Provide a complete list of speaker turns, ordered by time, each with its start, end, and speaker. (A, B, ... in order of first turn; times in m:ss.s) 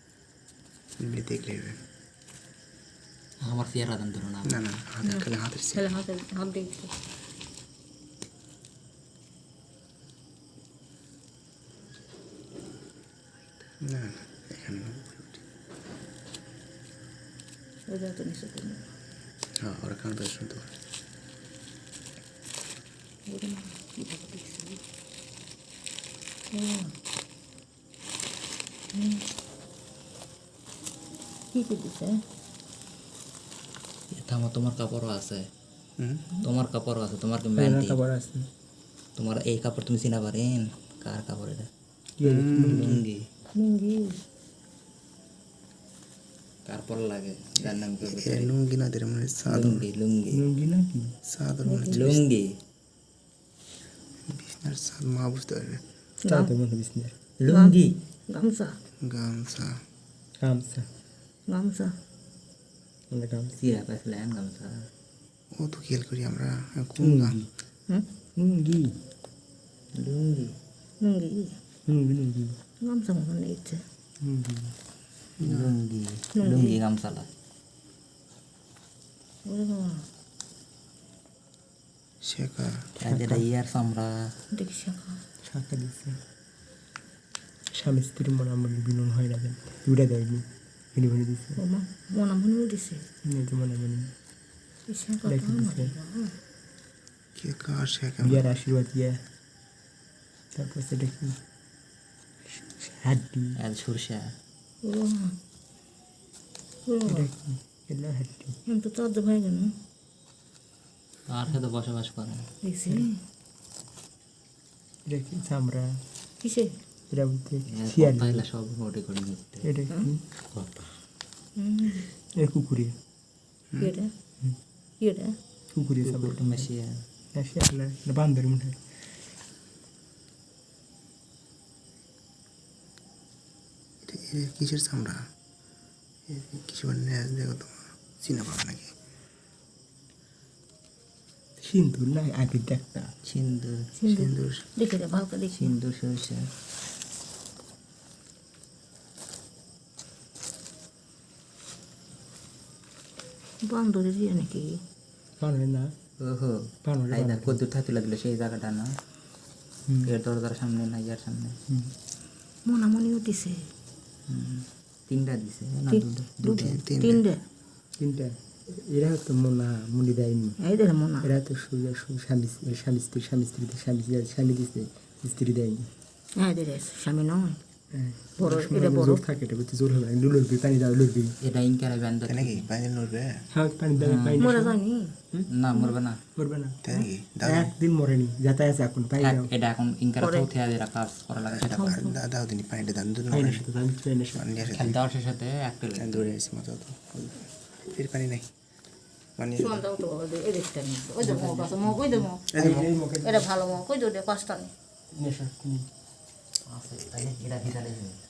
0:01.0-0:01.8 A
0:03.4-0:04.6 B
0:04.4-0:05.9 A
0:05.0-0:06.9 C
0:13.8-0:15.4 A
0:17.9-0:18.9 C
0:19.6-0:20.7 A
0:23.3-0:24.8 C
0:26.5-0:26.9 C
0:28.9-0:29.2 C
0:31.5-0:32.2 C
0:34.1-0:35.4 B
0:36.0-0:36.3 A
0:36.4-0:38.0 B
0:37.6-0:38.4 D
0:39.2-0:41.7 B
0:42.2-0:43.0 D
0:42.2-0:43.0 A
0:42.7-0:43.2 B
0:43.6-0:44.2 C
0:46.7-0:48.5 B
0:47.6-0:49.8 A
0:49.5-0:50.4 B
0:50.3-0:51.1 D
0:51.2-0:52.2 A
0:51.6-0:52.0 C
0:51.9-0:52.5 B
0:54.3-0:55.8 A
0:56.2-0:56.5 C
0:56.3-0:57.3 D
0:57.4-0:57.9 B
0:57.5-0:58.7 C
0:59.0-0:59.8 A
1:00.4-1:00.9 D
1:01.5-1:01.9 C
1:03.1-1:03.6 D
1:03.6-1:04.8 B
1:05.5-1:07.4 A
1:07.0-1:07.5 D
1:08.4-1:09.0 D
1:10.0-1:10.5 B
1:11.0-1:11.6 C
1:11.9-1:12.6 D
1:12.8-1:13.8 C
1:14.2-1:14.7 D
1:15.4-1:17.3 B
1:15.4-1:15.7 A
1:16.4-1:16.8 C
1:19.4-1:20.0 C
1:22.2-1:22.9 A
1:23.0-1:24.3 B
1:23.0-1:23.4 D
1:24.5-1:25.2 C
1:25.4-1:26.2 D
1:27.7-1:31.6 D
1:31.6-1:33.0 C
1:33.2-1:34.1 D
1:34.9-1:36.3 C
1:35.2-1:35.9 D
1:37.4-1:38.5 A
1:38.2-1:39.2 D
1:40.5-1:41.4 D
1:42.5-1:43.6 D
1:43.6-1:44.3 B
1:44.8-1:45.3 C
1:46.9-1:47.3 C
1:47.1-1:48.6 D
1:48.7-1:49.7 C
1:51.3-1:52.4 B
1:52.6-1:53.2 C
1:55.1-1:55.9 D
1:56.4-1:56.7 C
1:57.1-1:58.4 D
1:57.7-1:59.7 B
1:59.6-2:00.2 D
2:00.5-2:00.9 B
2:01.6-2:02.1 C
2:02.4-2:02.9 D
2:03.8-2:04.1 C
2:05.0-2:05.3 C
2:05.7-2:06.7 D
2:06.0-2:07.0 B
2:07.3-2:08.8 D
2:14.0-2:15.3 A
2:16.3-2:18.9 A
2:21.6-2:23.1 D
2:23.2-2:23.9 B
2:24.0-2:25.7 C
2:24.1-2:24.6 A
2:25.5-2:26.5 B
2:33.6-2:34.8 C
2:35.4-2:35.9 D
2:36.2-2:38.9 B
2:36.8-2:37.6 D
2:39.9-2:40.1 D
2:40.0-2:41.6 B
2:41.7-2:41.9 D
2:42.6-2:43.7 C
2:44.3-2:46.8 B
2:45.9-2:47.4 C
2:46.5-2:47.2 A
2:48.0-2:50.6 D
2:50.6-2:51.3 C
2:51.2-2:55.9 D
2:56.4-2:57.6 C
2:57.9-3:01.3 D
2:58.4-2:59.2 C
3:01.4-3:02.7 B
3:02.3-3:03.4 A
3:03.5-3:04.8 D
3:04.0-3:04.4 B
3:04.4-3:05.1 C
3:05.5-3:06.2 B
3:06.4-3:06.8 D
3:06.8-3:07.7 A
3:07.4-3:09.5 D
3:09.2-3:12.0 B
3:10.2-3:10.5 C
3:11.5-3:13.6 A
3:11.7-3:12.2 C
3:13.3-3:14.9 D
3:14.3-3:14.9 A
3:14.7-3:16.3 B
3:16.0-3:18.5 A
3:19.4-3:19.8 A
3:19.6-3:22.5 C
3:21.2-3:22.2 B
3:22.5-3:22.9 A
3:22.5-3:23.5 D
3:23.2-3:24.7 C
3:25.1-3:25.8 D
3:26.7-3:28.2 B